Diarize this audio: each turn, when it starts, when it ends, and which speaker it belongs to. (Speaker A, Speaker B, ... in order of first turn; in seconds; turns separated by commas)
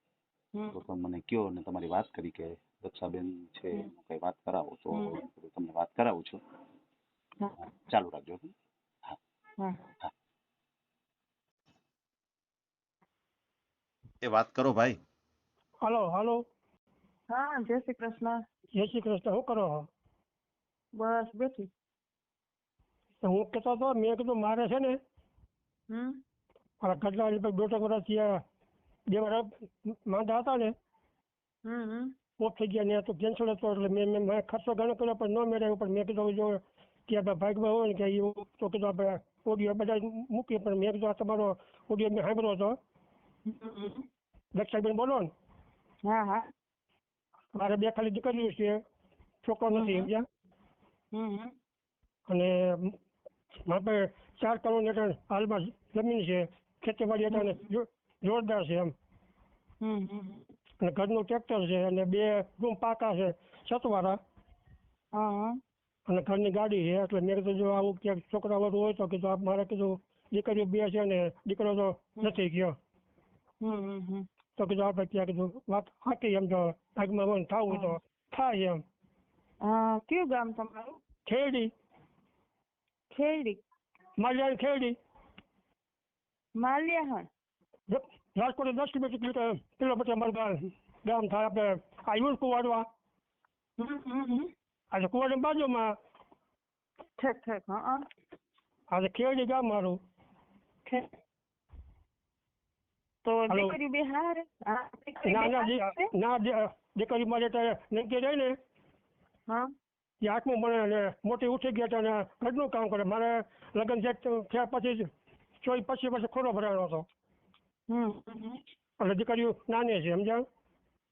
Speaker A: 0.5-0.8, Speaker B: 0.7-6.4, Speaker A: 4.9-5.2, Speaker B: 7.6-8.5, Speaker A: 9.6-9.8, Speaker B: 14.2-15.0, Speaker C: 15.8-16.4, Speaker A: 17.3-18.4, Speaker C: 18.7-19.9, Speaker A: 21.0-21.7, Speaker C: 23.2-25.0, Speaker A: 25.9-26.2, Speaker C: 26.8-28.4, Speaker C: 29.1-30.7, Speaker A: 31.6-32.1, Speaker C: 32.4-42.7, Speaker A: 43.5-44.0, Speaker C: 44.5-45.3, Speaker A: 46.0-46.5, Speaker C: 47.5-48.8, Speaker C: 49.4-50.2, Speaker A: 49.7-50.1, Speaker A: 51.1-51.5, Speaker C: 52.3-52.9, Speaker C: 53.6-58.9, Speaker A: 57.3-57.6, Speaker A: 59.8-60.5, Speaker C: 60.8-64.2, Speaker A: 65.1-65.6, Speaker C: 66.1-72.7, Speaker A: 73.6-74.2, Speaker C: 74.6-78.8, Speaker A: 79.6-81.0, Speaker C: 81.2-81.7, Speaker A: 83.1-83.6, Speaker C: 84.2-85.0, Speaker A: 86.5-87.3, Speaker C: 87.9-92.8, Speaker A: 93.8-94.5, Speaker C: 94.9-95.9, Speaker A: 97.2-98.0, Speaker C: 98.9-100.0, Speaker A: 103.2-106.0, Speaker C: 103.5-103.8, Speaker C: 105.2-108.5, Speaker C: 110.2-115.1, Speaker C: 115.6-117.0, Speaker A: 117.9-118.6, Speaker C: 119.0-120.4